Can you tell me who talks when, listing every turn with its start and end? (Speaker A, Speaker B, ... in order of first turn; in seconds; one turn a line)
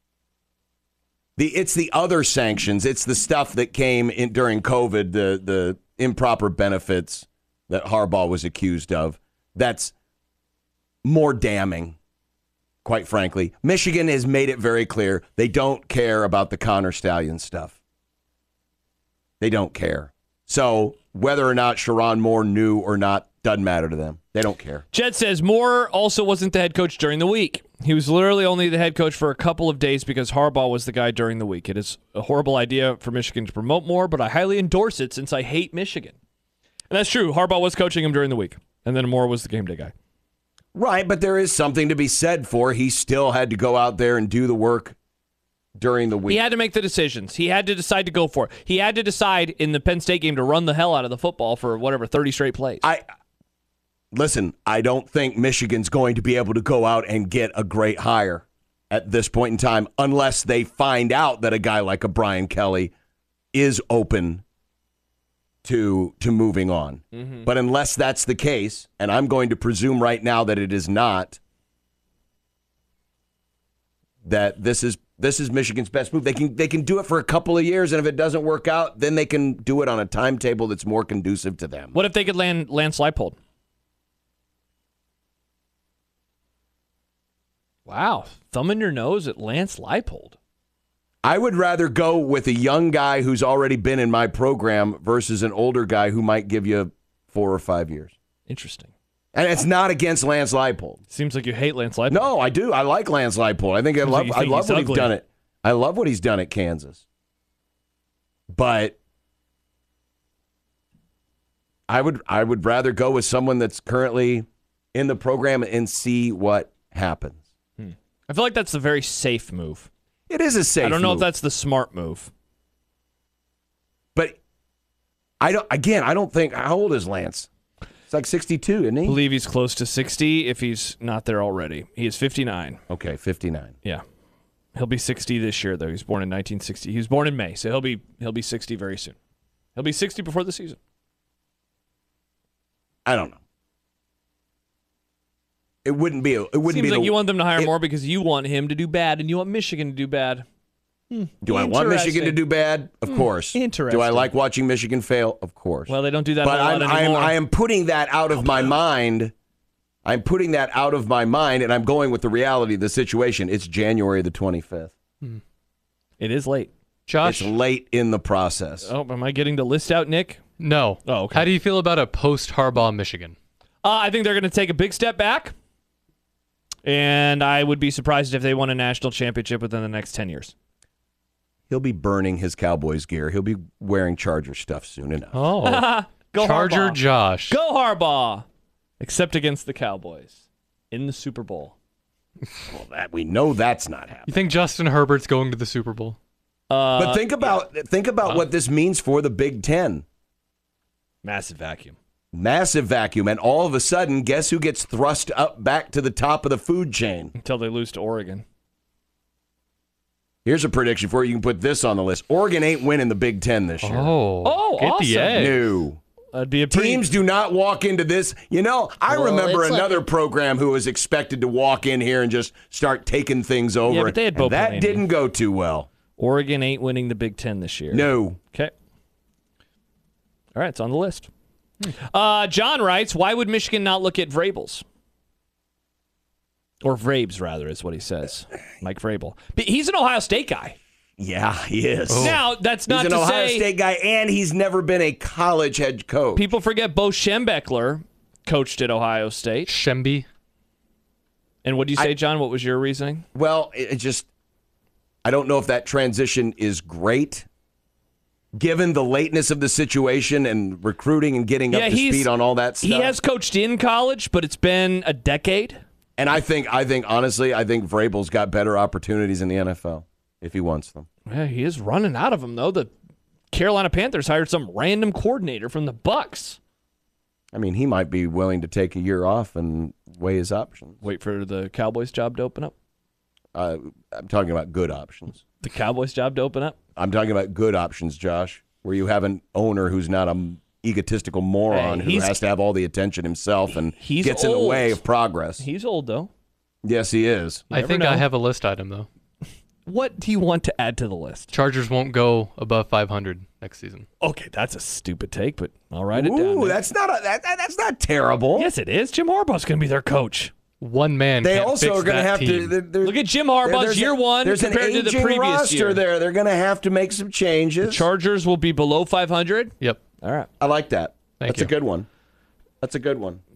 Speaker A: 1.4-9.9
Speaker A: 11.0-11.9
Speaker A: 12.8-17.8
Speaker A: 19.4-24.8
Speaker B: 24.9-36.1
Speaker B: 36.9-39.9
Speaker A: 40.7-45.0
Speaker A: 45.8-46.4
Speaker B: 46.2-52.9
Speaker A: 54.1-62.9
Speaker A: 63.5-64.4
Speaker A: 65.6-71.4
Speaker B: 67.1-67.5
Speaker A: 74.2-81.9
Speaker B: 81.9-83.4
Speaker B: 87.8-90.3
Speaker A: 91.2-98.1
Speaker B: 98.5-98.9
Speaker A: 99.3-101.0
Speaker B: 101.1-102.4
Speaker A: 102.1-107.0
Speaker B: 104.0-105.1
Speaker A: 108.5-109.0
Speaker A: 111.9-117.4
Speaker B: 117.8-119.9
Speaker A: 120.3-121.3
Speaker B: 120.8-122.3
Speaker A: 125.4-127.5
Speaker A: 128.1-129.2
Speaker B: 129.0-132.8
Speaker A: 132.9-133.7
Speaker B: 134.7-139.2
Speaker B: 139.8-140.8
Speaker A: 143.1-143.4
Speaker A: 145.8-147.7
Speaker B: 146.6-150.4
Speaker B: 151.1-152.4
Speaker A: 151.4-159.3
Speaker B: 153.1-154.3
Speaker B: 155.9-157.4
Speaker A: 160.0-164.9
Speaker B: 166.2-166.7
Speaker C: 167.1-167.5
Speaker A: 167.2-168.9
Speaker B: 168.8-170.4
Speaker C: 170.6-173.3
Speaker B: 171.0-171.5
Speaker B: 173.8-175.5
Speaker B: 176.8-180.5
Speaker A: 181.7-185.4
Speaker C: 185.3-185.8
Speaker B: 185.6-188.4
Speaker C: 186.4-187.6
Speaker B: 189.0-191.7
Speaker A: 192.7-194.3
Speaker C: 194.3-196.2
Speaker B: 196.7-197.6
Speaker A: 197.0-200.0
Speaker B: 201.2-201.9
Speaker A: 202.3-207.3
Speaker B: 207.3-208.4
Speaker A: 210.4-214.1
Speaker C: 213.8-215.6
Speaker B: 214.4-215.5
Speaker A: 215.4-216.0
Speaker B: 216.3-217.1
Speaker A: 216.7-225.9
Speaker B: 219.1-220.0
Speaker B: 223.8-225.1
Speaker B: 226.2-228.7
Speaker A: 227.9-228.4
Speaker B: 230.5-231.3
Speaker B: 231.9-234.8
Speaker B: 236.8-240.8
Speaker A: 241.2-246.5
Speaker C: 242.1-242.4
Speaker B: 242.2-243.7
Speaker B: 246.3-249.7
Speaker C: 249.7-250.2
Speaker B: 251.6-253.2
Speaker A: 253.3-254.3
Speaker A: 255.2-257.5
Speaker A: 258.5-263.2
Speaker B: 261.7-265.8
Speaker A: 266.2-271.1
Speaker B: 271.2-272.9
Speaker B: 273.5-276.6
Speaker A: 277.5-281.0
Speaker B: 281.0-282.7
Speaker A: 283.5-285.4
Speaker B: 285.6-286.8
Speaker A: 286.9-295.6
Speaker B: 291.7-292.5
Speaker B: 293.7-295.0
Speaker B: 295.6-296.3
Speaker A: 296.8-297.7
Speaker B: 297.7-298.3
Speaker C: 297.7-299.1
Speaker B: 299.9-301.5
Speaker C: 301.5-304.0
Speaker B: 304.2-306.8
Speaker A: 306.1-308.7
Speaker B: 308.5-310.5
Speaker C: 310.8-312.8
Speaker A: 311.4-318.0
Speaker B: 313.0-316.0
Speaker B: 317.8-320.5
Speaker A: 320.6-322.1
Speaker C: 321.4-321.7
Speaker A: 322.8-323.4